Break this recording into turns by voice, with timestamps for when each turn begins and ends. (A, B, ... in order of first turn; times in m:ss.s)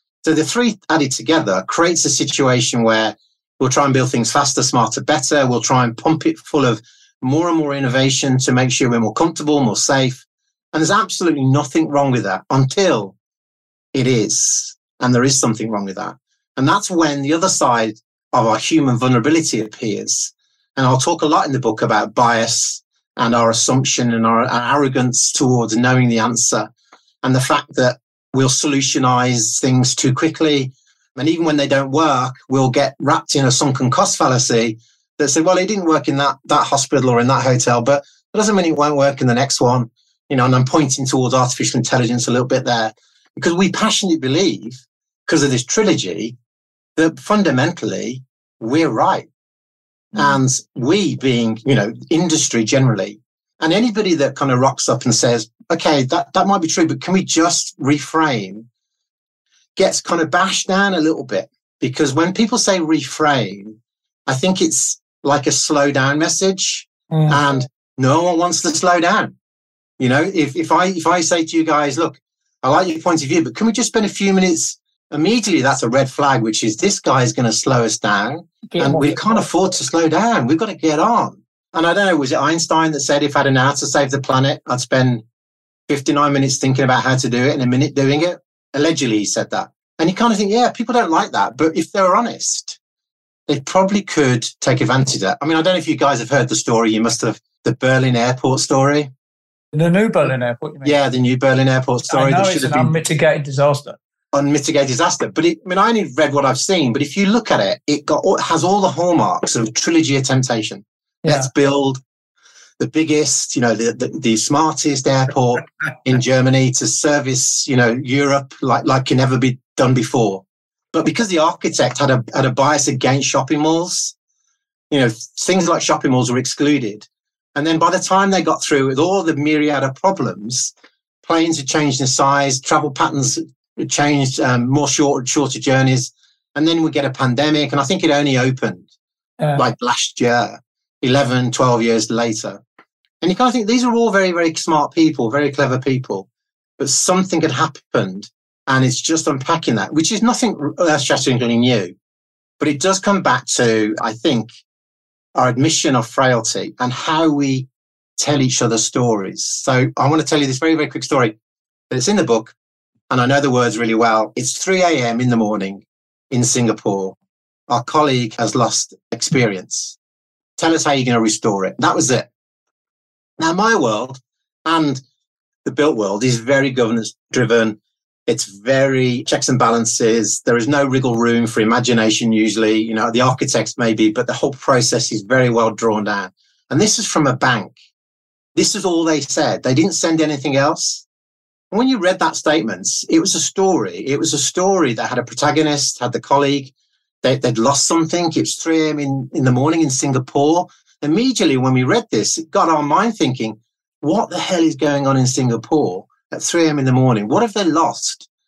0:00.2-0:13.2 A
0:13.9-0:26.7 A
0:27.2-0:46.4 A
0:47.0-0:49.3 A
0:50.1-0:58.7 A
0:59.8-1:09.3 A
1:07.1-1:07.4 B
1:10.0-1:25.2 A
1:18.7-1:19.4 B
1:25.9-1:32.8 A
1:33.5-1:39.1 A
1:39.7-1:41.0 B
1:40.8-1:42.9 A
1:42.1-1:44.0 B
1:44.3-1:52.0 A
1:51.2-1:51.5 B
1:52.8-2:04.1 A
2:04.9-2:10.7 A
2:11.2-2:18.9 A
2:19.6-2:22.6 A
2:23.2-2:26.3 A
2:26.8-2:31.9 A
2:32.6-2:34.5 A
2:35.4-2:41.4 A
2:41.9-2:42.6 A
2:43.1-2:47.2 A
2:47.7-2:50.0 A
2:50.6-2:52.3 A
2:53.4-2:55.0 A
2:55.6-3:07.8 A
3:08.6-3:11.0 A
3:11.7-3:28.3 A